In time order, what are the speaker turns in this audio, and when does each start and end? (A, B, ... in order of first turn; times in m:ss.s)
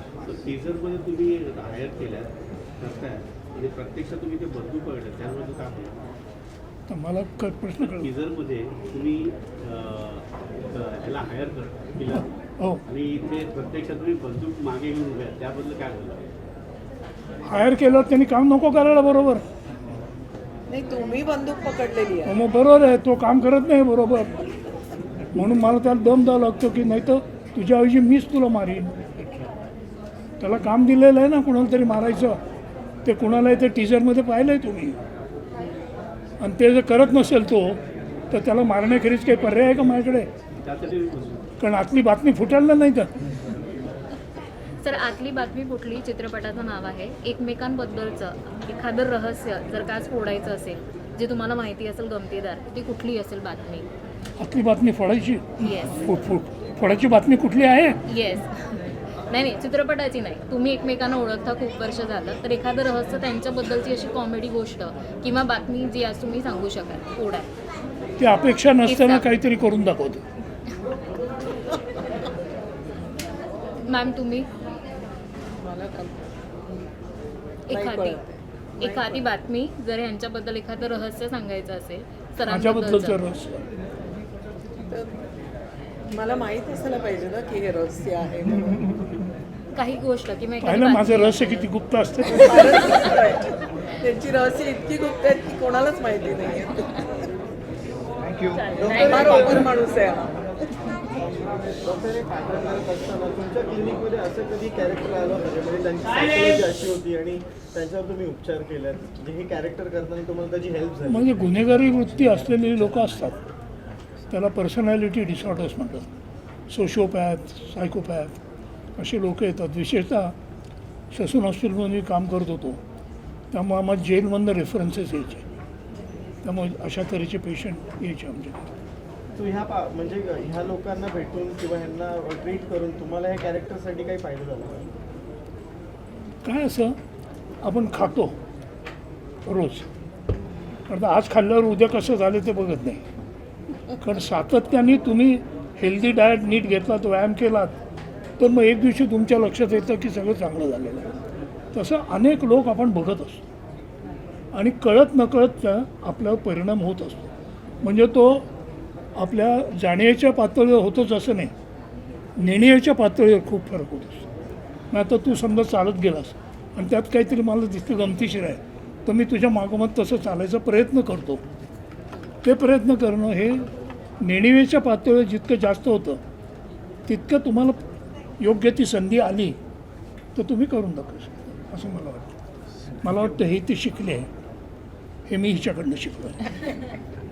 0:00.2-0:06.0 A
0:06.9-0:08.1 B
0:07.8-0:12.3 A
0:12.9-0:16.2 A
0:17.4-0:19.4 B
0:20.7-0:22.4 C
0:22.2-0:24.6 B
0:25.3-0:28.9 B
0:30.4-0:32.4 B
0:33.0-0:35.0 B
0:36.4-0:37.8 B
0:38.3-0:40.3 B
0:40.5-0:41.4 A
0:41.6-0:43.1 B
0:44.8-0:53.9 D
0:54.4-0:58.0 B
0:55.6-0:56.0 D
0:58.1-1:07.5 D
1:08.2-1:10.2 B
1:08.8-1:09.3 D
1:13.8-1:14.5 D
1:15.6-1:16.3 C
1:17.7-1:18.2 D
1:17.7-1:19.2 C
1:18.8-1:23.2 D
1:22.4-1:23.6 B
1:26.1-1:29.0 C
1:29.7-1:31.7 D
1:30.6-1:32.8 B
1:32.3-1:37.3 C
1:32.6-1:33.1 D
1:38.5-1:39.6 D
1:38.9-1:39.3 E
1:38.9-1:40.4 C
1:41.8-1:51.7 E
1:51.0-1:53.4 B
1:54.3-1:56.1 B
1:56.7-1:58.3 B
1:59.0-2:00.3 B
2:01.1-2:02.8 B
2:03.5-2:05.4 B
2:06.4-2:08.6 B
2:09.4-2:14.9 E
2:16.4-2:16.9 B
2:17.6-2:18.3 B
2:19.4-2:19.9 B
2:20.9-2:23.0 B
2:24.0-2:27.8 B
2:28.4-2:31.1 B
2:31.7-2:33.4 B
2:34.5-2:37.2 B
2:37.8-2:38.5 B
2:39.2-2:41.5 B
2:42.4-2:44.3 B
2:44.9-2:51.4 B
2:52.4-2:53.7 B
2:54.2-2:56.2 B
2:57.1-2:57.8 B
2:58.4-2:59.6 B
3:00.3-3:02.3 B
3:03.0-3:04.3 B
3:05.3-3:06.6 B